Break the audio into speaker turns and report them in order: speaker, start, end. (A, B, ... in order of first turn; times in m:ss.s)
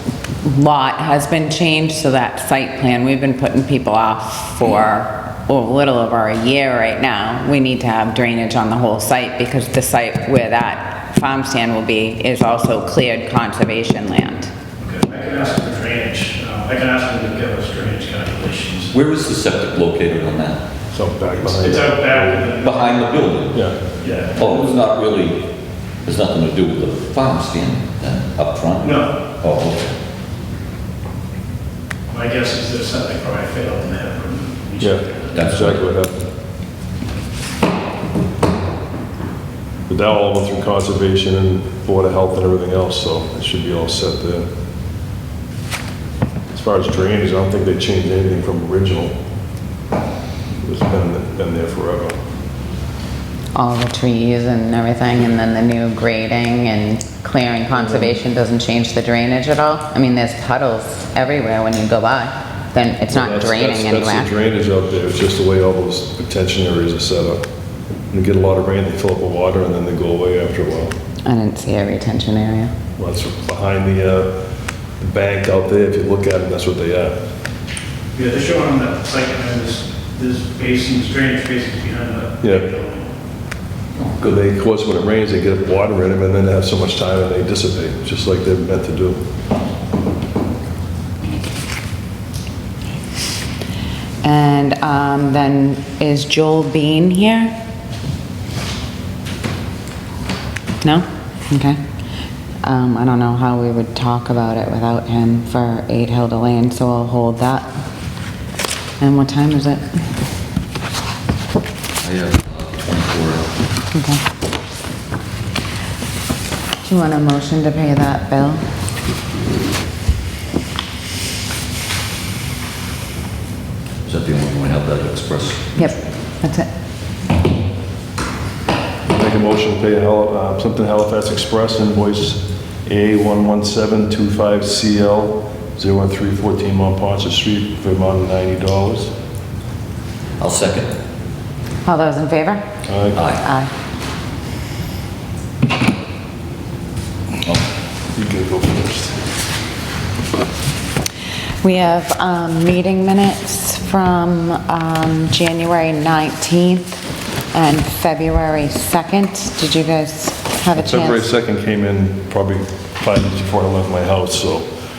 0:00.4-0:14.5 A
0:14.8-0:18.9 B
0:18.9-0:20.6 C
0:20.9-0:22.5 D
0:21.3-0:23.1 B
0:22.6-0:23.6 C
0:24.0-0:24.8 B
0:24.4-0:25.4 C
0:26.0-0:29.9 C
0:28.8-0:29.1 B
0:32.1-0:35.6 B
0:34.8-0:36.3 D
0:35.3-0:35.8 C
0:39.9-0:44.5 D
0:46.5-0:49.1 D
0:50.6-0:52.2 D
0:53.6-1:04.3 A
0:57.8-0:58.1 D
1:03.1-1:07.4 D
1:08.1-1:10.9 D
1:11.2-1:12.7 A
1:13.0-1:14.3 D
1:15.0-1:17.2 D
1:18.1-1:23.1 B
1:22.4-1:22.7 D
1:24.0-1:24.4 C
1:24.2-1:29.2 D
1:34.2-1:37.5 A
1:40.8-1:41.8 A
1:42.6-1:47.7 A
1:49.0-1:50.0 A
1:52.0-1:53.5 C
1:53.9-1:54.2 A
1:56.8-1:58.6 A
2:04.0-2:05.7 C
2:05.8-2:06.7 A
2:09.1-2:19.1 D
2:20.4-2:20.9 C
2:21.8-2:22.7 A
2:22.9-2:23.2 D
2:23.2-2:23.4 C
2:23.4-2:23.7 A
2:28.1-2:29.2 D
2:31.6-2:37.0 A
2:37.5-2:41.3 A
2:40.8-2:44.7 D